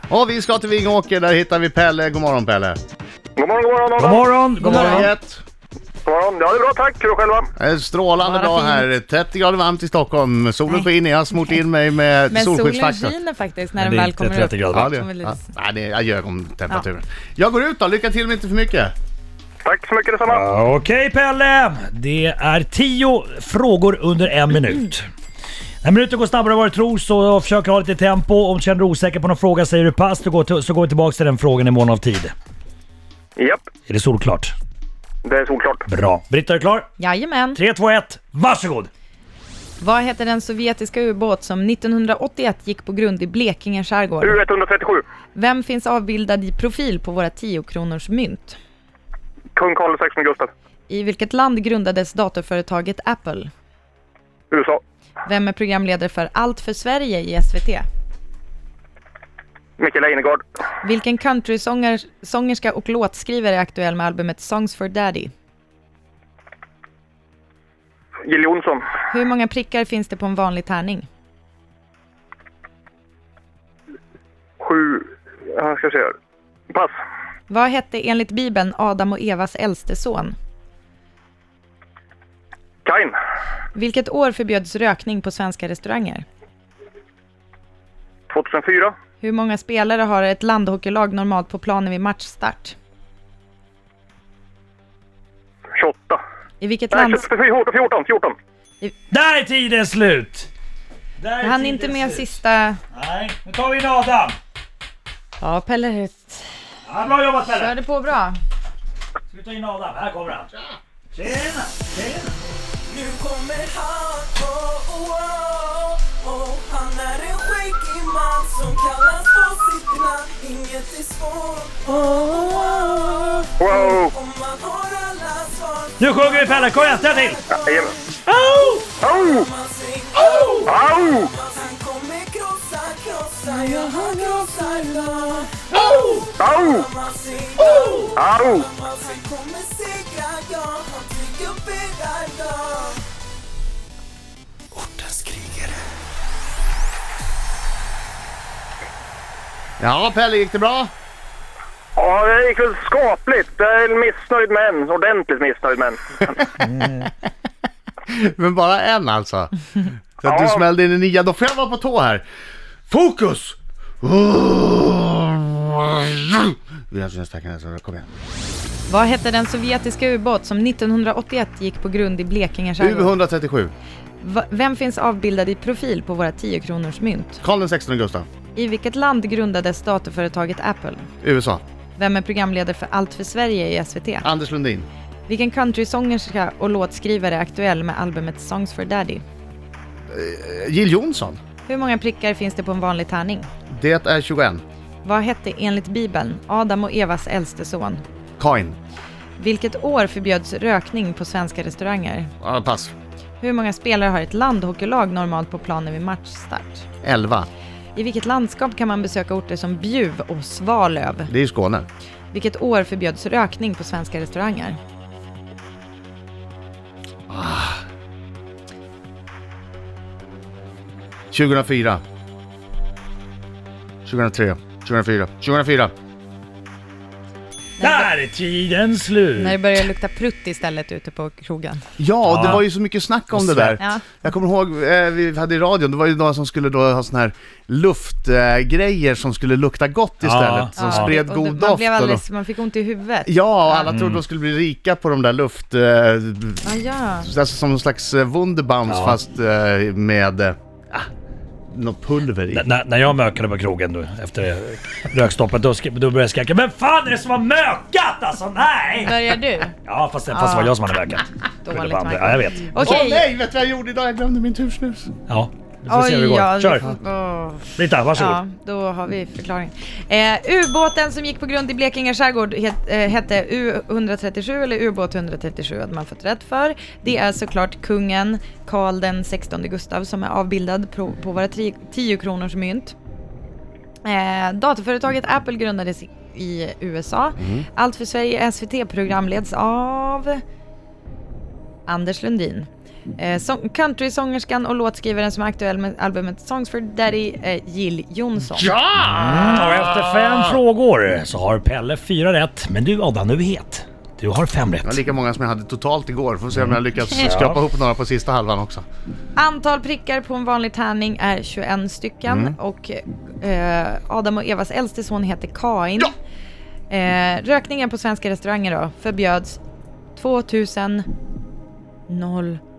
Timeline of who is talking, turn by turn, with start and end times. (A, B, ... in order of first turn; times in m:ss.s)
0:00.1-0:02.8 A
0:03.4-0:04.2 B
0:04.0-0:05.1 C
0:04.6-0:05.4 A
0:04.6-0:05.1 D
0:06.0-0:07.5 B
0:07.6-0:13.1 A
0:08.2-0:08.9 D
0:12.3-0:15.5 D
0:13.8-0:14.9 C
0:14.7-0:18.9 A
0:19.6-0:20.4 B
0:20.3-0:25.1 C
0:25.8-0:32.3 C
0:33.4-0:33.6 B
0:33.9-0:34.5 C
0:35.2-0:35.8 B
0:35.9-0:36.9 C
0:37.0-0:37.6 D
0:37.5-0:38.9 C
0:39.8-0:44.4 D
0:44.2-0:45.0 B
0:45.3-0:48.6 D
0:49.6-0:50.5 B
0:50.9-0:53.5 D
0:54.5-0:54.8 B
0:55.2-0:57.8 D
0:59.8-1:00.4 B
1:00.8-1:05.3 D
1:08.2-1:08.8 B
1:09.1-1:11.1 D
1:14.6-1:16.1 B
1:16.7-1:17.0 B
1:17.5-1:20.3 D
1:22.8-1:23.2 B
1:23.7-1:26.2 D
1:28.3-1:28.9 B
1:29.2-1:32.8 D
1:35.8-1:36.2 B
1:36.6-1:37.3 D
1:36.9-1:38.3 B
1:39.1-1:40.5 C
1:41.2-1:42.3 C
1:41.4-1:42.8 D
1:42.9-1:44.4 C
1:45.4-1:46.5 D
1:46.9-1:47.7 C
1:47.4-1:48.4 D
1:49.3-1:50.5 C
1:51.1-1:52.3 C
1:52.9-2:23.0 E
2:03.6-2:04.1 B
2:06.0-2:07.4 C
2:07.5-2:07.9 B
2:08.4-2:08.7 C
2:09.0-2:09.5 B
2:10.6-2:11.3 B
2:16.4-2:16.8 B
2:18.1-2:18.7 B
2:24.8-2:25.7 C
2:29.8-2:30.9 A
2:32.0-2:36.6 B
2:38.0-2:39.5 A
2:40.2-2:42.2 A
2:40.2-2:40.6 B
2:42.9-2:48.1 A
2:48.9-2:53.1 D
2:52.8-2:53.7 A
2:54.2-2:57.4 D
2:57.4-2:58.3 A
2:58.5-3:01.1 D
3:01.2-3:01.6 A
3:02.0-3:04.3 D
3:04.2-3:04.9 A
3:05.3-3:09.2 D
3:10.1-3:11.4 A
3:11.6-3:13.5 D
3:13.7-3:14.6 A
3:15.0-3:18.0 D
3:18.4-3:18.8 A
3:19.4-3:22.3 D
3:22.4-3:22.9 A
3:23.4-3:26.8 D
3:27.0-3:27.5 A
3:27.9-3:31.3 D
3:31.3-3:31.9 A
3:32.3-3:34.8 D
3:37.3-3:37.8 A
3:41.3-3:42.0 A
3:44.0-3:45.9 A
3:47.8-3:48.1 D
3:47.8-3:49.6 C
3:49.4-3:51.8 D
3:52.0-4:02.2 A
3:52.3-3:52.6 C
3:53.3-3:53.8 C
3:53.8-3:54.2 D
4:00.2-4:01.1 C
4:00.8-4:03.8 D
4:03.2-4:06.6 A
4:03.9-4:04.2 C
4:06.6-4:07.3 D
4:07.2-4:11.1 A
4:08.9-4:09.1 C
4:11.7-4:12.6 A
4:12.5-4:19.3 C
4:19.0-4:19.8 D
4:19.8-4:22.8 C
4:20.3-4:20.8 D
4:21.6-4:23.2 D
4:22.8-4:25.1 A
4:25.3-4:26.9 C
4:25.9-4:42.9 D
4:27.8-4:28.4 C
4:44.0-4:50.4 D
4:47.4-4:47.7 A
4:51.9-4:58.7 D
4:58.6-5:00.6 A
4:59.0-5:05.0 C
5:04.8-5:08.8 A
5:06.6-5:07.6 C
5:07.1-5:07.3 D
5:09.4-5:16.1 D
5:12.2-5:12.6 A
5:16.9-5:19.6 D
5:20.2-5:21.1 D
5:22.1-5:22.6 D